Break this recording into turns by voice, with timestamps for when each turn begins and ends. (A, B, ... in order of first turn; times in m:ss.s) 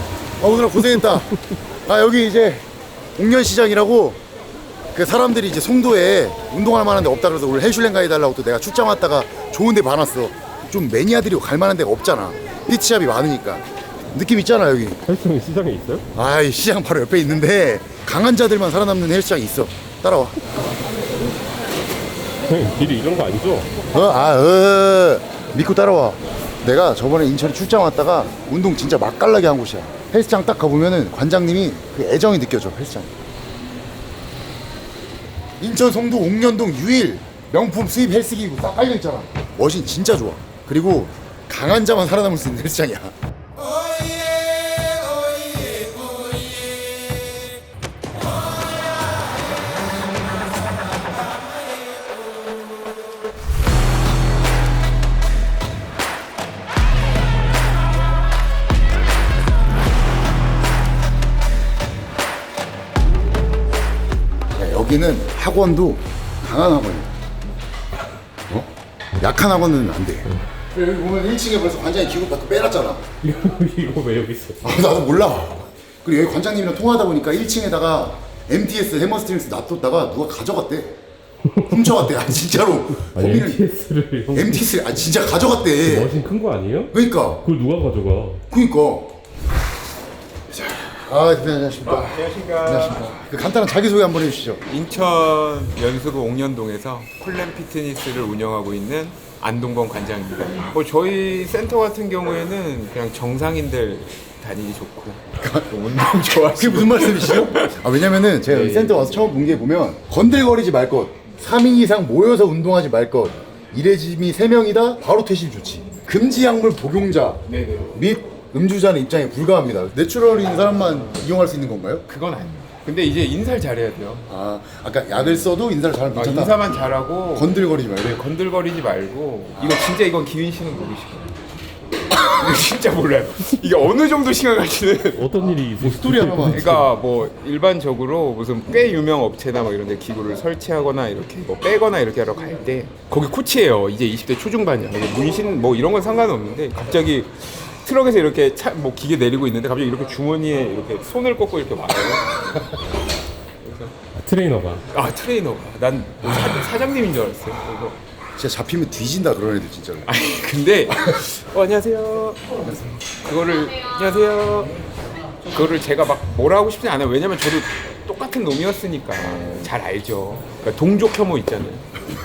0:00.4-0:04.2 A
0:04.9-0:15.0 A
0:15.0-0:16.1 B
0:16.2-0:20.4 A
0:22.5-0:23.7 B
0:23.9-0:33.1 A
0:35.6-0:47.4 A
0:48.9-0:49.2 A
1:04.6-1:07.1 A
1:08.5-1:13.1 A
1:13.2-1:14.8 B
1:14.6-1:21.0 A
1:21.5-1:22.2 B
1:21.6-1:23.6 A
1:23.0-1:24.9 B
1:24.3-1:26.2 A
1:25.8-1:28.4 B
1:26.9-1:27.4 A
1:28.5-1:29.2 A
1:30.5-1:34.6 A
1:31.9-1:33.1 C
1:34.7-1:47.8 C
1:45.4-2:02.0 A
1:48.5-1:49.3 C
1:57.5-1:57.9 C
2:02.1-2:04.3 C
2:04.3-2:08.2 A
2:06.2-2:07.5 C
2:08.0-2:11.3 C
2:12.3-2:15.2 C
2:15.2-2:16.9 B
2:15.8-2:16.8 A
2:16.5-2:32.7 C
2:33.6-2:33.9 C
2:34.2-2:34.9 B
2:34.9-2:38.0 C
2:38.4-2:40.1 A
2:40.1-2:42.5 C
2:43.2-2:44.7 C
2:45.4-2:51.9 C
2:49.2-2:49.7 A